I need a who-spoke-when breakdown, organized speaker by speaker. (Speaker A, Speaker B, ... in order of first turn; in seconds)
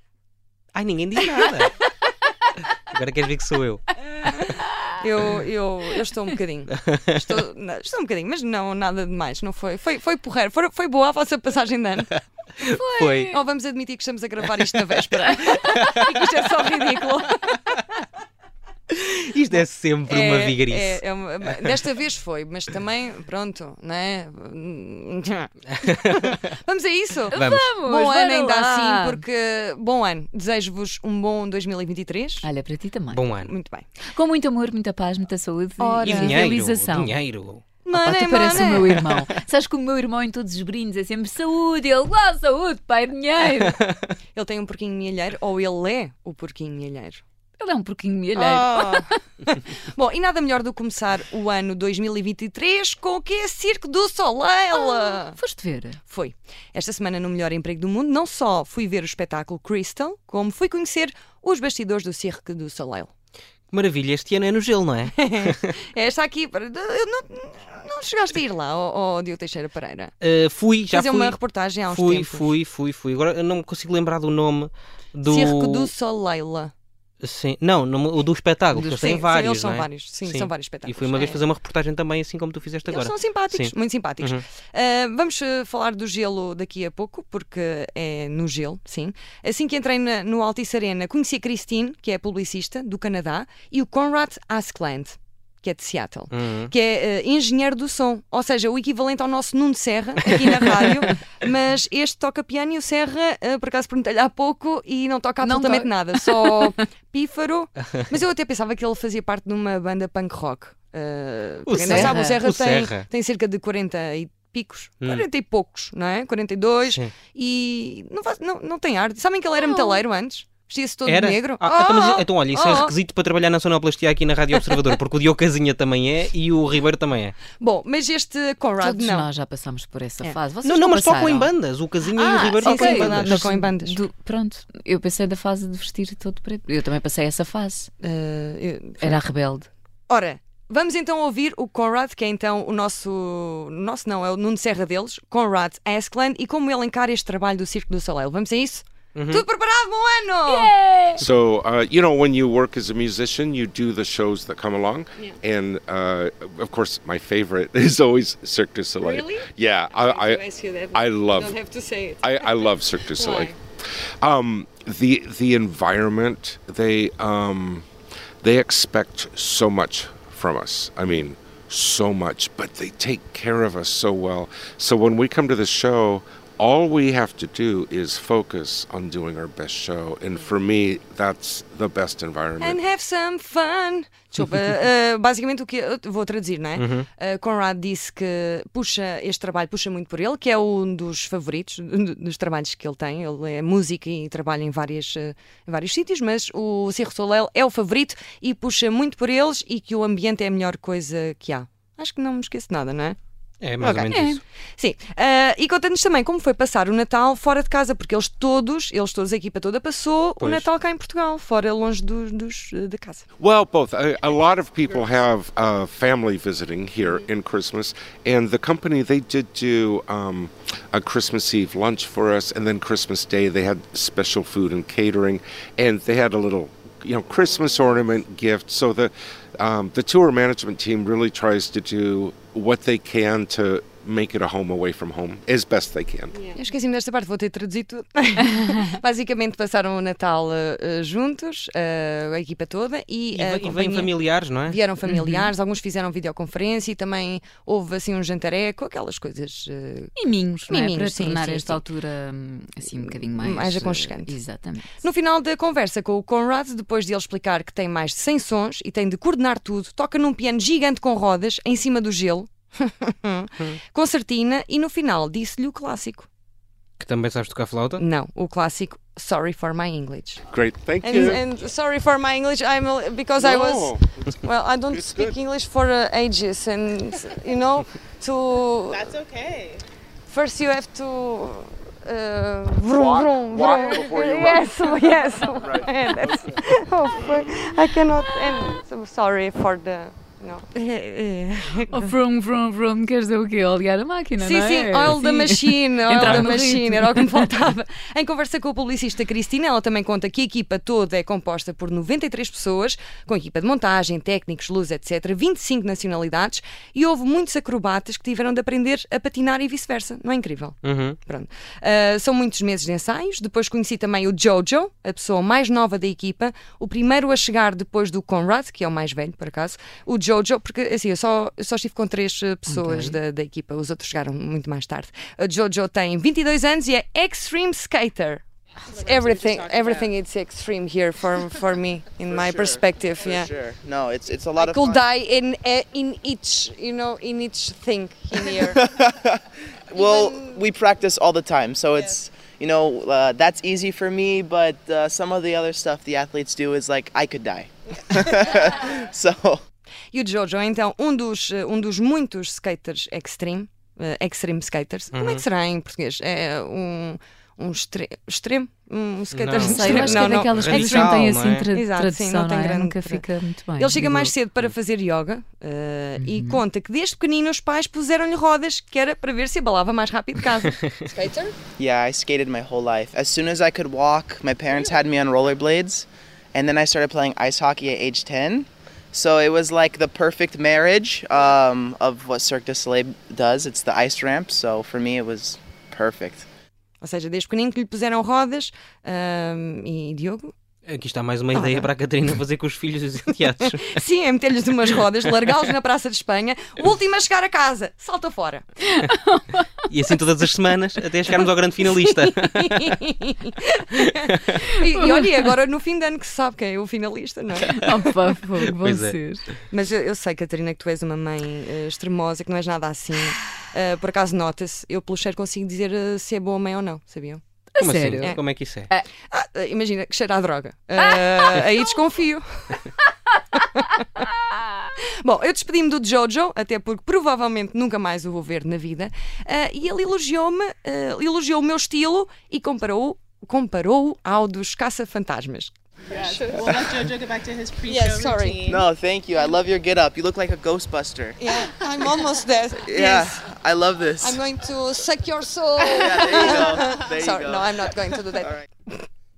Speaker A: 0.7-1.7, 2.6-4.5, 6.7-7.2, 12.6-13.3, 14.7-15.0, 15.7-16.0, 18.9-21.0, 25.7-26.4, 27.3-27.8, 33.1-33.5, 36.0-37.6, 63.7-65.8, 70.2-75.9, 77.2-84.5, 96.3-96.7, 100.2-100.8, 111.7-113.1, 115.0-115.2, 121.0-127.4, 130.6-133.5, 149.1-149.4, 186.8-187.1, 203.6-204.4, 210.4-210.7, 243.3-244.8, 267.0-268.0, 310.8-311.2, 355.1-355.4, 359.3-361.7, 364.0-364.7, 390.9-394.0, 399.9-403.0, 404.2-404.6, 408.7-409.2, 417.8-418.9
Speaker B: 5.0-12.2, 13.0-17.8, 20.1-32.5, 33.4-33.9, 35.8-36.5, 37.8-39.0, 44.3-47.2, 48.3-55.4, 56.1-63.1, 65.1-70.1, 70.9-72.6, 75.3-76.7, 78.8-81.4, 82.8-123.0, 127.5-129.3, 132.1-134.0, 138.0-139.2, 140.1-150.7, 159.0-163.5, 182.6-203.2, 203.8-204.2, 204.8-213.2, 236.5-250.1, 250.7-251.8, 253.0-254.3, 255.0-266.3, 268.0-270.4, 271.0-279.1, 280.3-292.1, 294.4-328.4, 328.9-333.5, 334.6-338.8, 339.9-340.6, 350.1-363.2, 363.8-371.5, 387.0-390.5, 391.5-391.9, 393.8-398.6, 402.5-407.8, 409.7-417.4, 418.2-418.4, 419.3-422.8, 425.2-435.7, 437.9-438.8, 441.4-443.4, 444.2-449.1
Speaker C: 12.7-13.4, 27.3-29.2, 32.4-33.2, 34.1-37.1, 38.0-43.8, 47.6-49.1, 54.7-56.0, 105.4-106.8, 111.8-112.4, 119.5-120.0, 128.8-131.5, 132.7-137.9, 139.0-139.7, 150.5-151.2, 204.1-204.4, 245.1-245.5, 250.2-255.0, 291.9-297.5, 322.7-323.2, 359.6-364.3, 366.2-366.6, 398.9-399.7, 405.0-405.5, 407.7-409.4, 417.7-418.3, 421.0-421.6, 423.4-424.9
Speaker D: 151.2-160.4, 160.9-161.6, 162.2-163.6, 164.2-167.8, 168.4-182.8, 213.4-236.4, 270.5-271.4, 273.4-274.2, 274.9-275.4, 283.0-286.5
Speaker E: 278.9-279.8, 328.9-330.1, 436.1-438.8
Speaker F: 332.3-335.1, 338.7-339.4, 339.9-349.6, 371.8-386.4, 438.7-441.4, 442.9-444.4, 446.0-447.7